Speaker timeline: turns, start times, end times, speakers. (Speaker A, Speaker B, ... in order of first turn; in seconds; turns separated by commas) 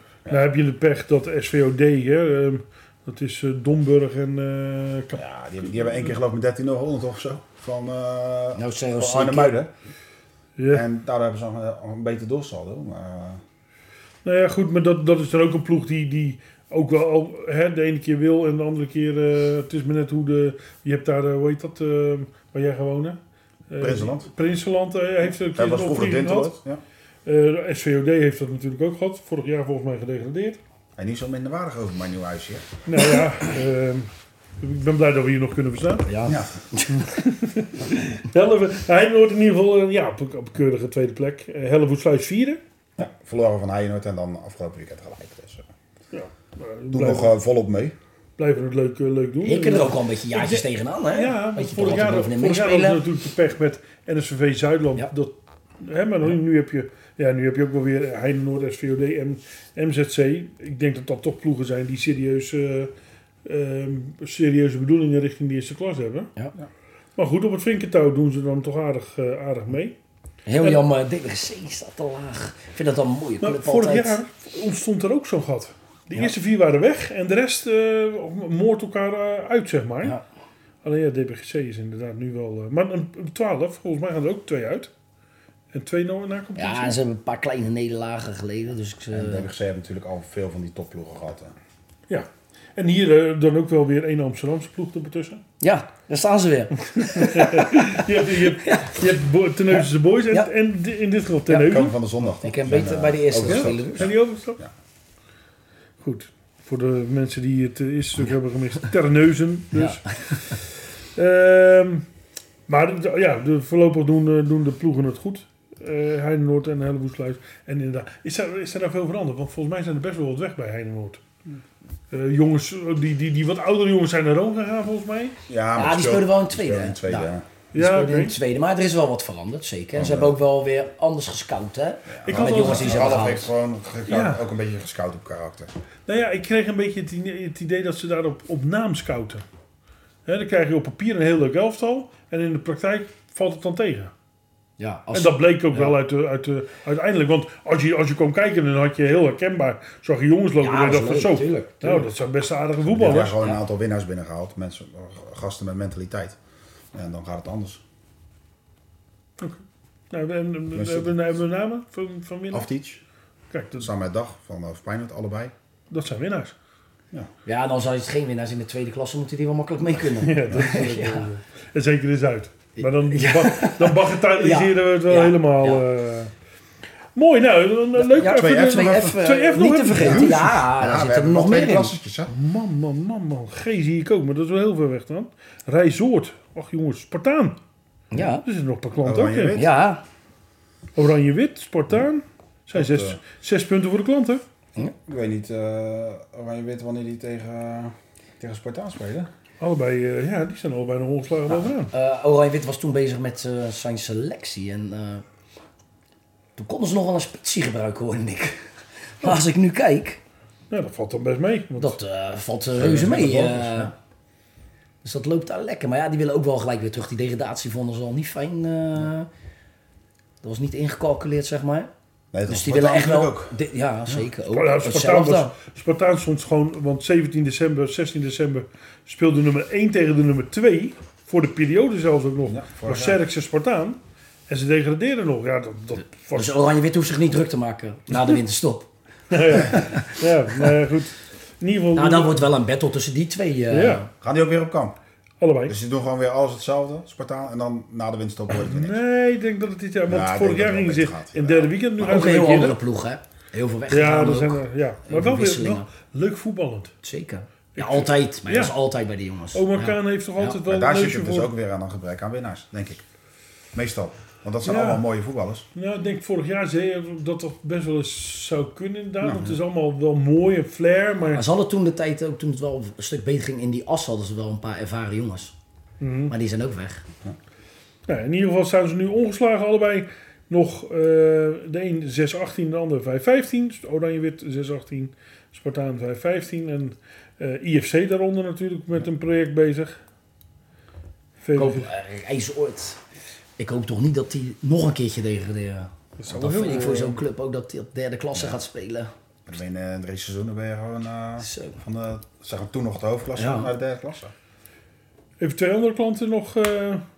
Speaker A: 0.3-5.2, Speaker B: 5.1-9.7, Speaker C: 8.6-9.6, Speaker A: 10.6-10.8, Speaker B: 10.7-13.4, Speaker A: 14.2-23.2, Speaker A: 23.7-26.5, Speaker B: 23.8-24.3, Speaker B: 25.5-26.8, Speaker A: 27.3-30.6, Speaker B: 31.0-32.7, Speaker A: 32.9-36.1, Speaker C: 36.0-37.1, Speaker B: 36.3-36.5, Speaker A: 37.0-42.6, Speaker B: 43.0-45.7, Speaker A: 46.1-47.3, Speaker B: 46.9-48.0, Speaker A: 48.4-62.9, Speaker C: 49.4-53.0, Speaker A: 63.5-66.3, Speaker A: 67.2-70.0, Speaker C: 70.5-74.2, Speaker A: 73.4-80.2, Speaker A: 80.8-84.9, Speaker A: 85.7-87.0, Speaker C: 86.6-89.5, Speaker B: 89.1-91.5, Speaker A: 92.1-95.4, Speaker C: 95.6-99.0, Speaker A: 97.0-102.0, Speaker C: 99.8-100.5, Speaker B: 101.5-104.7, Speaker C: 102.4-104.1, Speaker A: 103.5-104.6, Speaker A: 106.0-112.0, Speaker C: 109.7-110.5, Speaker A: 112.7-121.2, Speaker A: 122.1-125.4, Speaker B: 125.5-127.5, Speaker C: 125.8-133.5, Speaker A: 127.7-128.4, Speaker B: 129.9-130.4, Speaker B: 132.1-135.7, Speaker A: 132.3-133.2, Speaker A: 134.1-134.4, Speaker A: 136.1-139.4, Speaker A: 140.3-144.1, Speaker C: 144.8-145.9, Speaker A: 145.1-153.4, Speaker C: 150.6-152.1, Speaker B: 152.9-156.4, Speaker B: 156.9-157.8, Speaker A: 160.1-162.7, Speaker B: 160.7-161.1, Speaker B: 162.5-163.0, Speaker A: 163.5-163.9, Speaker B: 163.8-165.5, Speaker A: 165.9-166.6, Speaker C: 167.5-171.3, Speaker A: 170.2-176.3, Speaker C: 172.8-175.8, Speaker A: 177.2-180.6, Speaker C: 178.1-181.9, Speaker B: 178.2-179.2, Speaker B: 180.0-182.3, Speaker A: 182.3-187.6, Speaker C: 188.1-188.4, Speaker A: 188.4-189.6, Speaker B: 189.0-189.8, Speaker C: 189.6-190.0, Speaker A: 191.0-194.4, Speaker B: 192.7-193.2, Speaker B: 195.1-199.3, Speaker A: 199.6-201.9, Speaker C: 201.5-205.2, Speaker C: 206.6-208.7, Speaker C: 209.2-210.2, Speaker A: 210.7-212.0, Speaker C: 211.8-213.9, Speaker B: 212.8-213.9, Speaker C: 215.0-219.3, Speaker C: 220.4-221.9, Speaker B: 222.3-223.6, Speaker C: 222.5-225.5, Speaker A: 224.5-236.6, Speaker B: 232.5-233.2, Speaker C: 236.3-238.9, Speaker A: 239.3-242.5, Speaker C: 239.5-240.7, Speaker C: 241.9-244.1, Speaker A: 243.7-244.1, Speaker B: 244.2-245.0, Speaker A: 245.4-245.8, Speaker B: 245.7-249.0, Speaker A: 248.5-252.8, Speaker B: 250.1-251.7, Speaker C: 252.0-255.9, Speaker A: 253.9-256.9, Speaker C: 257.0-260.6, Speaker A: 257.8-258.8, Speaker A: 259.5-261.5, Speaker B: 260.6-263.0, Speaker B: 263.7-265.7, Speaker A: 264.6-265.0, Speaker A: 265.8-271.4, Speaker B: 269.2-269.6, Speaker C: 271.3-275.5, Speaker A: 276.0-276.3, Speaker C: 276.3-277.1, Speaker A: 278.1-290.0, Speaker A: 291.4-291.9, Speaker C: 291.6-293.0, Speaker C: 293.6-299.1, Speaker A: 296.2-297.2, Speaker B: 299.5-304.3, Speaker C: 301.4-301.8, Speaker C: 303.4-303.7, Speaker A: 305.4-307.0